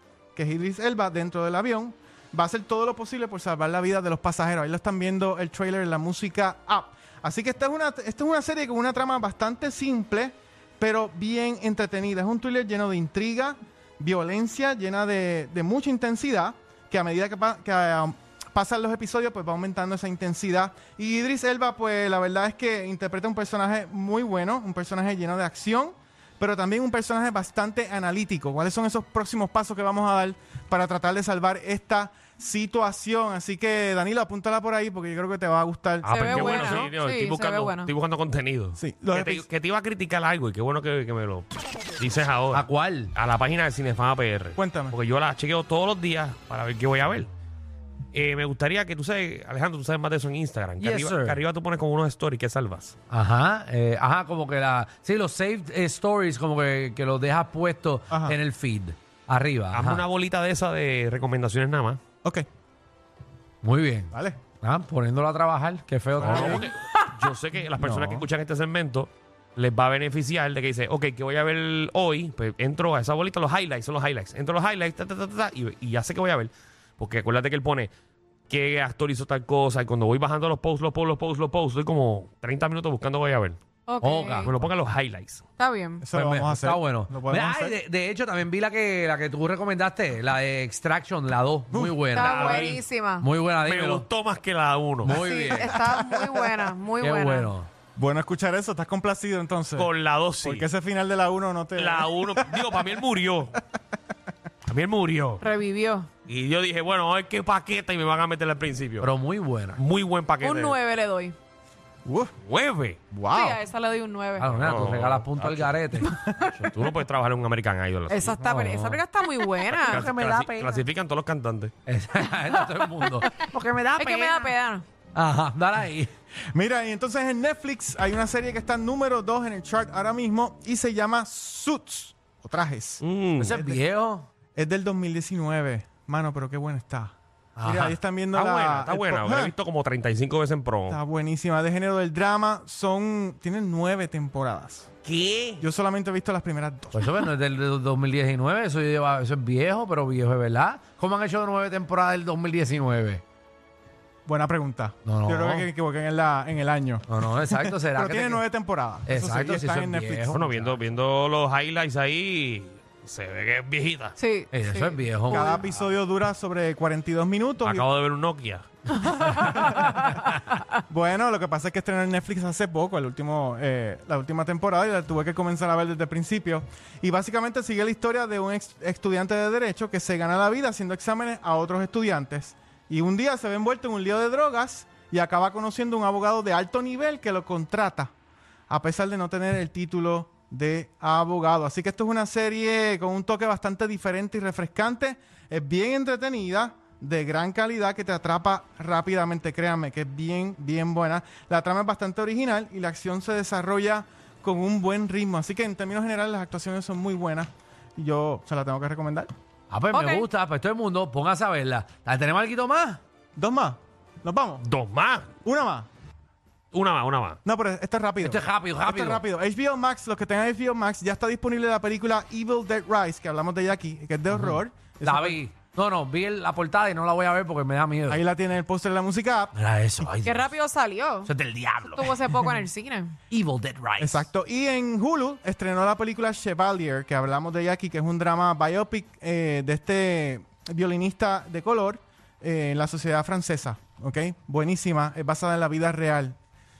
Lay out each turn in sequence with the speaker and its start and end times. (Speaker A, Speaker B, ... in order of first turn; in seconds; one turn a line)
Speaker A: 0.3-36.9
Speaker B: 36.0-47.3
Speaker C: 36.1-37.9
Speaker A: 38.8-39.5
Speaker D: 42.5-43.1
Speaker A: 44.5-45.0
Speaker B: 48.1-52.9
Speaker D: 50.8-51.4
Speaker D: 53.1-60.0
Speaker A: 58.1-58.4
Speaker B: 59.7-62.0
Speaker D: 63.6-66.7
Speaker A: 64.1-64.4
Speaker A: 66.2-66.7
Speaker B: 66.2-77.9
Speaker A: 67.8-68.2
Speaker B: 78.5-83.6
Speaker C: 83.9-84.5
Speaker D: 84.0-84.5
Speaker B: 84.4-85.4
Speaker C: 85.6-86.0
Speaker A: 86.0-87.8
Speaker D: 86.1-92.5
Speaker A: 91.7-92.8
Speaker C: 92.1-93.3
Speaker B: 92.2-92.8
Speaker D: 93.2-94.1
Speaker B: 93.7-95.2
Speaker D: 95.0-95.8
Speaker C: 95.1-97.5
Speaker A: 95.7-96.5
Speaker D: 97.0-97.7
Speaker A: 98.0-99.9
Speaker B: 99.8-100.7
Speaker A: 100.4-102.7
Speaker B: 101.8-103.6
Speaker B: 104.7-105.4
Speaker C: 105.4-106.1
Speaker B: 106.3-109.1
Speaker D: 109.0-109.8
Speaker B: 109.8-110.8
Speaker C: 110.4-111.3
Speaker A: 112.0-112.3
Speaker B: 112.4-113.0
Speaker A: 113.1-113.6
Speaker C: 113.3-114.8
Speaker D: 114.4-116.1
Speaker B: 114.6-115.9
Speaker C: 116.0-116.3
Speaker B: 116.5-118.5
Speaker C: 118.1-120.1
Speaker D: 118.4-119.0
Speaker B: 119.7-121.7
Speaker D: 119.8-120.8
Speaker D: 121.8-124.5
Speaker C: 124.0-124.8
Speaker D: 125.1-126.1
Speaker A: 126.5-133.8
Speaker B: 133.0-133.6
Speaker D: 133.4-134.3
Speaker A: 134.6-139.5
Speaker D: 137.6-138.0
Speaker B: 138.3-141.0
Speaker A: 140.9-144.9
Speaker B: 145.0-145.6
Speaker A: 145.6-147.1
Speaker D: 146.9-153.2
Speaker A: 154.2-160.4
Speaker D: 155.0-155.7
Speaker D: 157.1-158.4
Speaker D: 159.1-160.7
Speaker B: 160.3-164.2
Speaker C: 164.2-165.6
Speaker D: 164.5-165.5
Speaker A: 165.3-167.8
Speaker B: 167.6-168.7
Speaker C: 168.9-170.6
Speaker A: 169.3-170.1
Speaker A: 170.9-188.1
Speaker A: 188.7-209.3
Speaker D: 209.7-213.0
Speaker C: 209.9-210.2
Speaker A: 213.3-214.6
Speaker B: 214.6-215.3
Speaker A: 215.4-215.9
Speaker B: 216.7-217.4
Speaker A: 217.4-225.4
Speaker D: 218.2-219.2
Speaker D: 224.3-228.2
Speaker A: 228.1-229.5
Speaker D: 229.5-230.5
Speaker C: 230.2-231.3
Speaker D: 231.2-232.1
Speaker C: 231.9-233.2
Speaker D: 233.3-234.3
Speaker A: 234.0-246.4